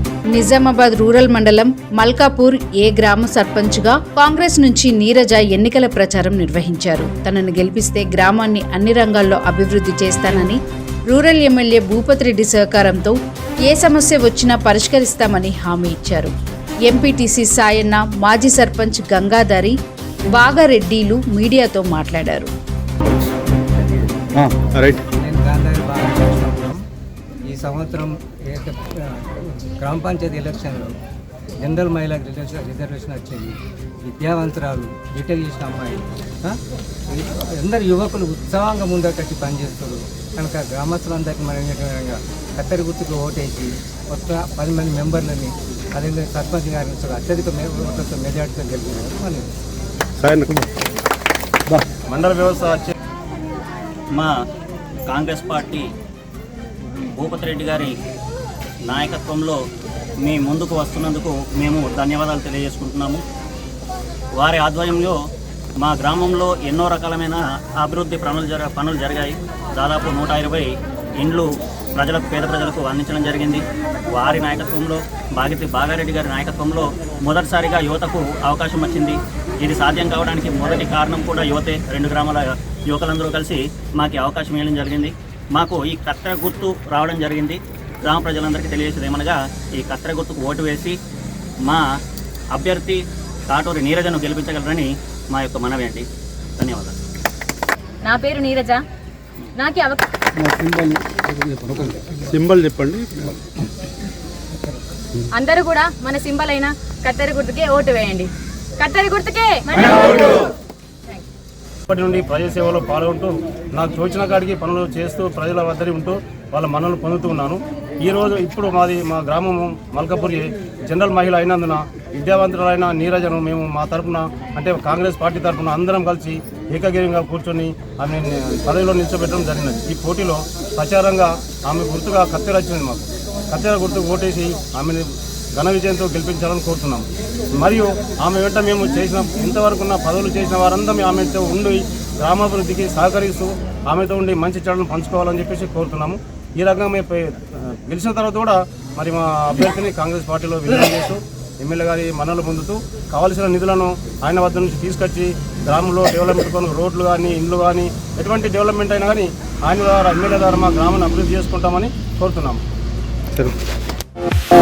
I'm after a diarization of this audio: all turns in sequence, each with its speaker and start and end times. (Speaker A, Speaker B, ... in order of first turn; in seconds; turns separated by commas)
Speaker A: 0.3-13.2, Speaker A: 13.7-16.3, Speaker A: 16.9-19.8, Speaker A: 20.3-22.5, Speaker B: 24.4-25.0, Speaker C: 25.1-26.8, Speaker C: 27.4-30.9, Speaker C: 31.6-49.5, Speaker B: 50.2-50.6, Speaker D: 52.0-52.9, Speaker E: 55.1-55.9, Speaker E: 57.1-58.0, Speaker E: 58.9-59.6, Speaker E: 60.2-63.2, Speaker E: 64.3-65.2, Speaker E: 65.8-91.0, Speaker E: 92.5-96.9, Speaker F: 98.0-98.8, Speaker F: 99.5-100.0, Speaker B: 100.4-103.4, Speaker F: 105.3-110.5, Speaker D: 111.9-162.6